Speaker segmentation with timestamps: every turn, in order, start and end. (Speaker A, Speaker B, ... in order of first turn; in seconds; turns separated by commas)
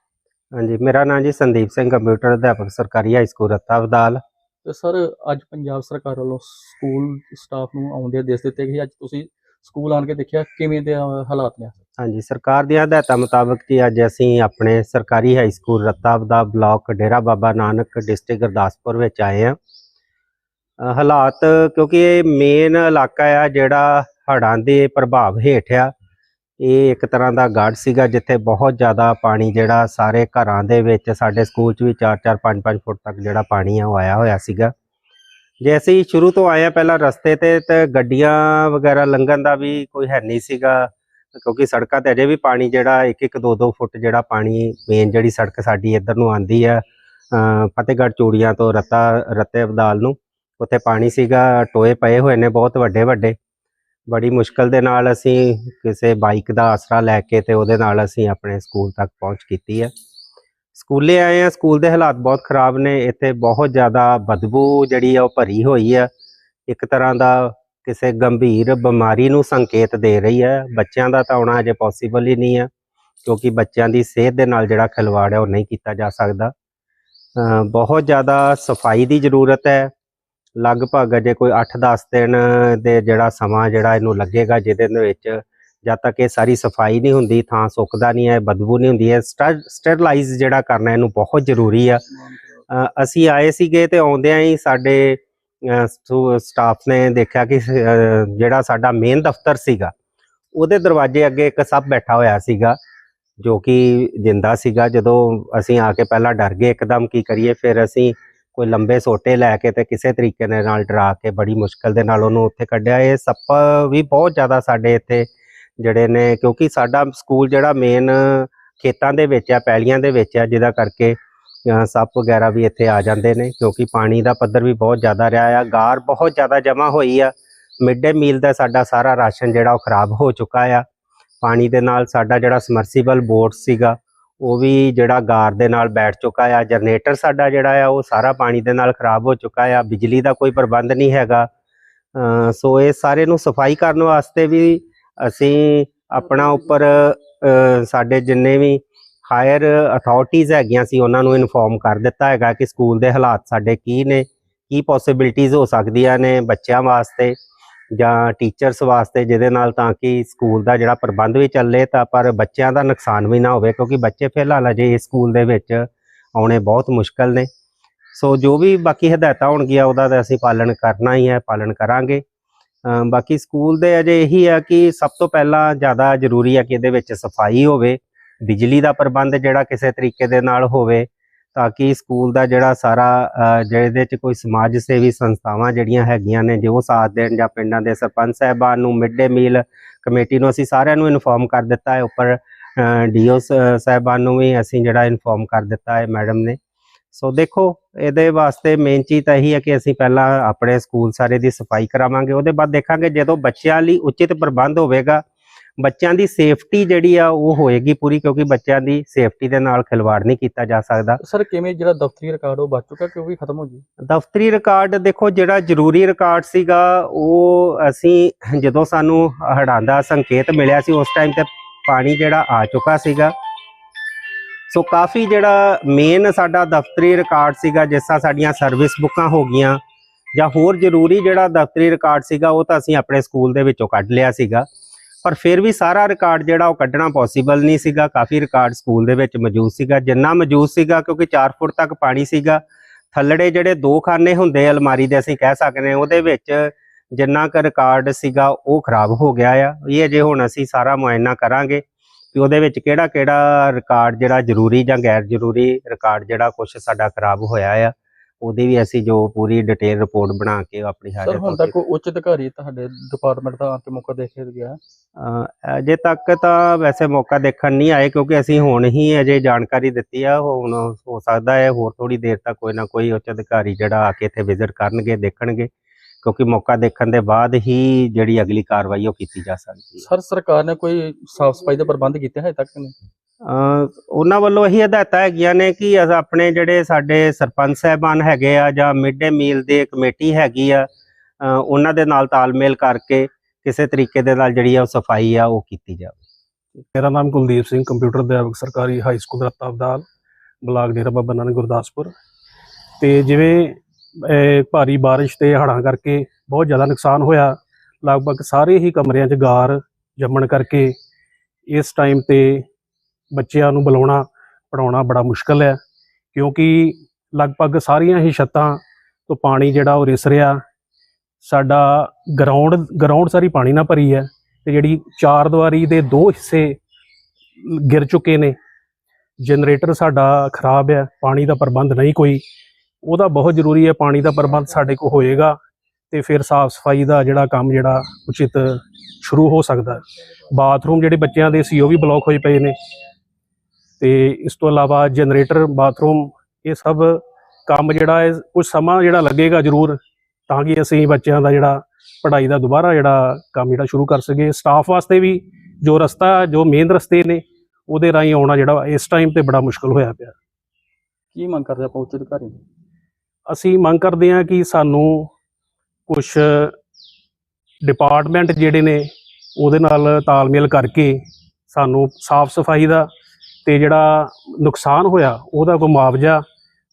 Speaker A: 0.5-4.2, Speaker B: 4.7-11.7, Speaker A: 12.0-19.6, Speaker A: 20.8-25.9, Speaker A: 26.6-34.7, Speaker A: 35.6-53.4, Speaker A: 54.1-59.9, Speaker A: 60.8-66.1, Speaker A: 66.7-72.7, Speaker A: 73.3-76.5, Speaker A: 77.4-79.9, Speaker A: 80.6-92.0, Speaker B: 92.2-92.7, Speaker A: 92.7-99.9, Speaker A: 100.5-102.8, Speaker A: 103.4-130.8, Speaker A: 131.4-141.5, Speaker A: 142.2-157.3, Speaker A: 157.9-167.5, Speaker A: 168.1-172.2, Speaker A: 172.8-196.6, Speaker A: 197.1-205.2, Speaker A: 205.8-211.2, Speaker B: 211.2-213.8, Speaker A: 214.1-223.3, Speaker A: 224.7-229.8, Speaker A: 230.3-234.7, Speaker A: 235.2-242.6, Speaker A: 243.1-261.8, Speaker B: 261.2-264.8, Speaker A: 265.2-275.7, Speaker A: 276.2-280.0, Speaker B: 280.0-282.9, Speaker A: 283.4-290.9, Speaker A: 291.4-296.2, Speaker C: 296.9-300.1, Speaker C: 300.6-302.1, Speaker C: 303.0-310.9, Speaker C: 311.7-312.7, Speaker C: 313.3-315.8, Speaker C: 316.3-320.6, Speaker C: 321.4-326.8, Speaker C: 327.6-328.6, Speaker C: 329.4-332.4, Speaker C: 333.0-335.6, Speaker C: 336.1-342.7, Speaker C: 344.0-360.4, Speaker B: 361.3-362.6, Speaker C: 363.5-365.3, Speaker C: 366.1-366.7, Speaker C: 367.8-369.0, Speaker C: 369.6-371.2, Speaker C: 371.7-373.1, Speaker C: 373.6-376.4